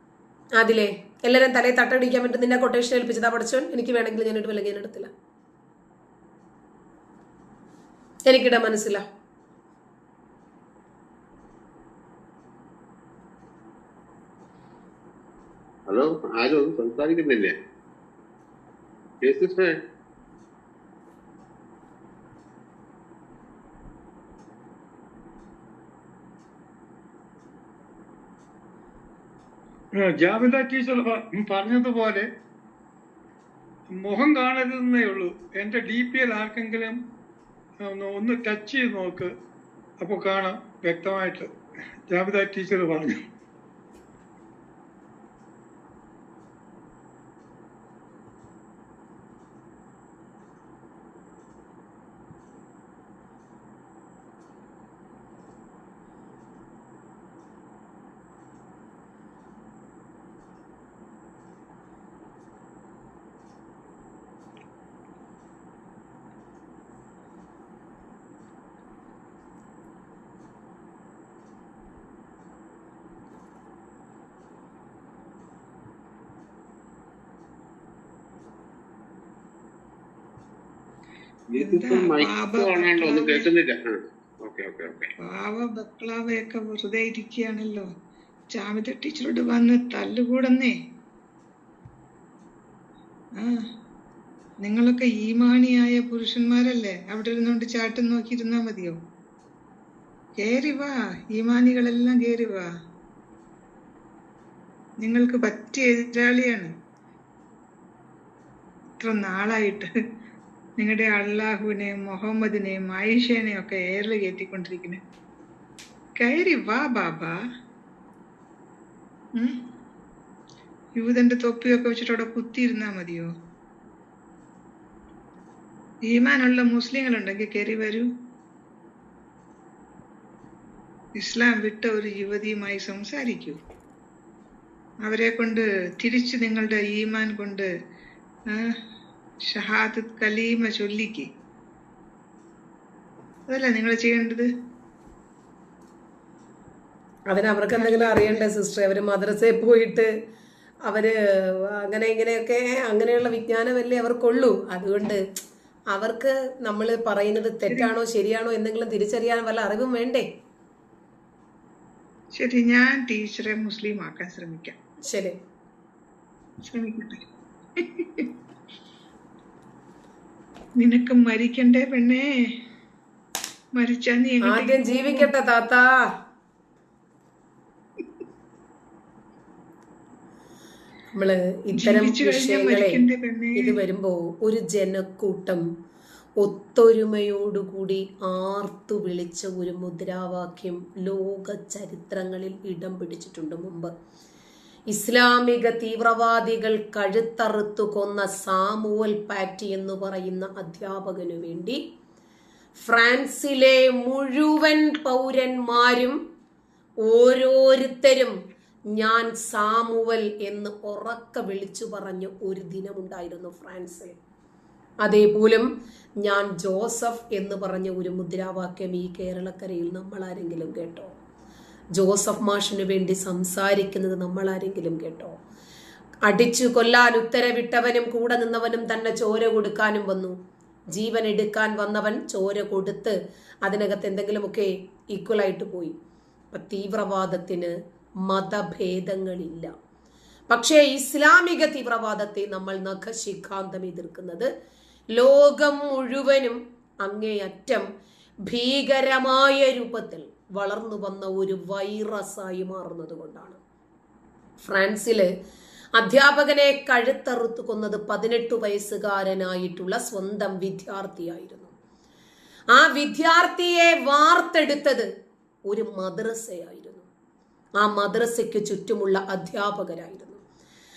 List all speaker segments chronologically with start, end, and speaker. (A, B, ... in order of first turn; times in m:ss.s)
0:00.6-0:05.1 A
0:08.3-0:09.0 A
0:15.9-0:17.5 B
0:19.2-0:19.8 B
0:30.0-0:32.2 C
0:33.9-0:37.0 C
0:37.8-0:39.3 C
0:40.0-0:41.5 C
0:42.1-0:43.2 C
1:21.5-1:25.1 B
1:21.6-1:23.5 D
1:25.2-1:27.8 D
1:28.5-1:30.7 D
1:34.6-1:39.0 D
1:40.4-1:42.7 D
1:45.0-1:46.7 D
1:49.0-1:49.9 D
1:50.8-1:55.0 D
1:56.2-1:57.3 D
2:01.0-2:03.3 D
2:06.1-2:08.0 D
2:11.2-2:13.6 D
2:15.0-2:17.7 D
2:19.4-2:21.3 D
2:23.5-2:24.5 D
2:27.3-2:30.1 A
2:27.7-2:28.4 D
2:30.8-2:35.2 A
2:35.9-2:40.2 A
2:42.3-2:44.7 D
2:45.1-2:45.3 A
2:46.6-2:47.2 D
2:47.8-2:48.3 D
2:50.8-2:52.2 D
2:53.8-2:55.3 D
2:54.4-2:55.8 A
3:01.1-3:03.0 A
3:01.8-3:03.7 D
3:03.6-3:05.6 A
3:06.4-3:13.9 A
3:14.9-3:21.8 A
3:22.7-3:26.2 A
3:27.0-3:28.3 A
3:28.9-3:34.1 A
3:35.0-3:35.7 A
3:36.2-3:41.1 A
3:42.0-3:45.3 A
3:46.2-3:50.3 A
3:50.9-3:55.9 A
3:56.5-3:57.7 A
3:58.2-3:59.7 A
4:00.5-4:04.5 A
4:05.2-4:07.8 A
4:08.5-4:13.6 A
4:14.6-4:15.3 A
4:16.0-4:21.7 A
4:22.7-4:25.0 A
4:25.7-4:27.1 A
4:27.8-4:30.4 A